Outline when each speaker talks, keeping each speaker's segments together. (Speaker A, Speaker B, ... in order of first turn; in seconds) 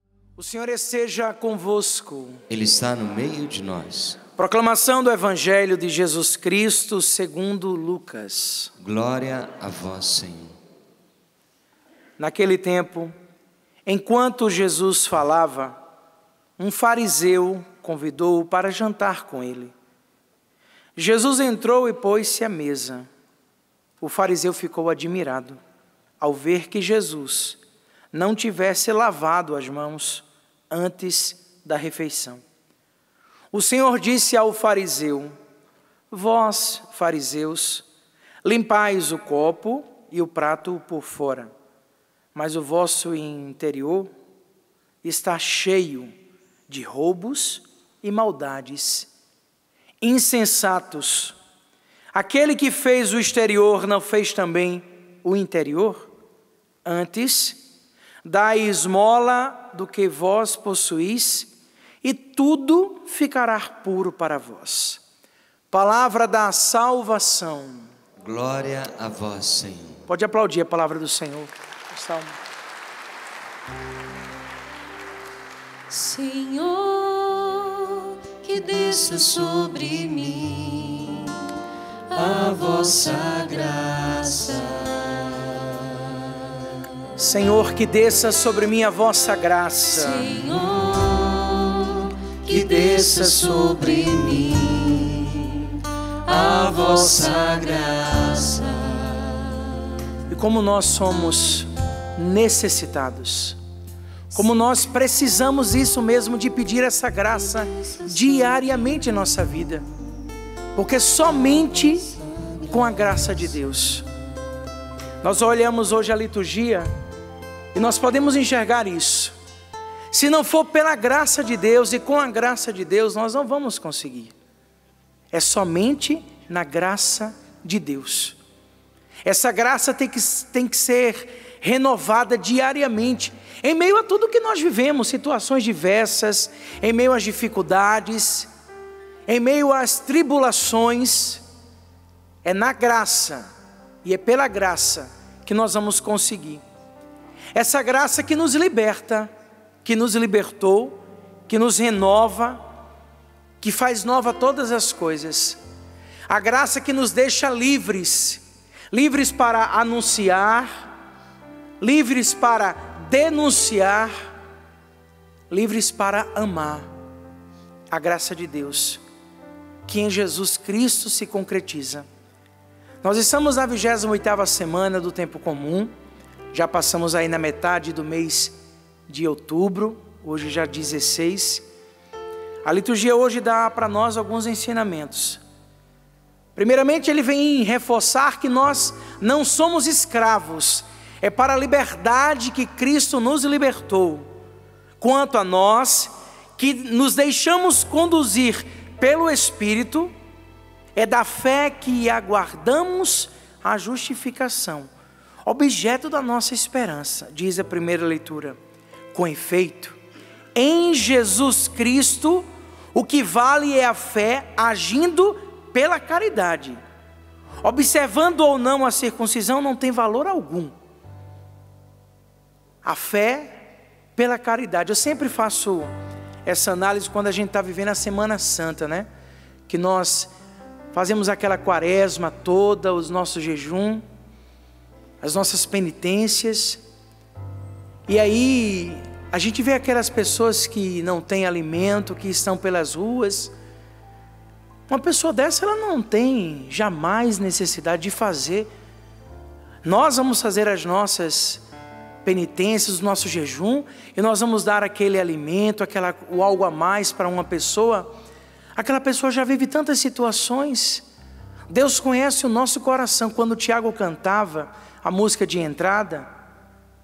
Speaker A: 0.4-2.4, 4.4-8.7, 12.2-13.1, 13.9-15.8, 16.6-19.7, 21.0-23.1, 24.0-25.6, 26.2-27.6, 28.1-32.4, 33.5-35.3, 36.1-37.9, 38.4-41.5, 42.4-44.1, 45.0-46.1, 46.7-49.1, 50.0-51.4, 52.1-56.1, 56.9-57.6, 58.2-61.5, 62.0-65.0, 65.7-67.9, 70.1-72.4, 87.2-90.3, 92.5-94.0, 100.3-103.6, 104.3-109.8, 110.8-114.1, 115.2-116.9, 117.7-119.3, 120.1-124.3, 125.3-128.4, 129.2-138.5, 139.3-141.4, 142.4-143.5, 144.0-146.6, 147.6-149.3, 149.8-152.6, 153.6-155.6, 156.3-160.9, 161.8-164.1, 165.5-166.9, 167.9-169.0, 169.9-172.1, 173.0-175.9, 176.5-178.6, 179.1-181.6, 182.6-185.4, 186.6-194.2, 195.0-200.1, 200.9-204.9, 205.5-208.6, 209.1-210.0, 210.6-216.8, 217.6-220.7, 222.8-223.6, 224.2-225.9, 226.4-229.1, 229.7-230.3, 230.9-234.0, 235.2-236.8, 238.1-243.5, 244.9-248.7, 249.8-251.6, 252.2-258.1, 258.8-261.0, 261.7-266.3
Speaker B: 2.5-4.2, 8.8-10.5, 68.2-70.0
Speaker C: 75.9-81.4, 82.1-85.3, 90.0-95.5, 96.3-99.4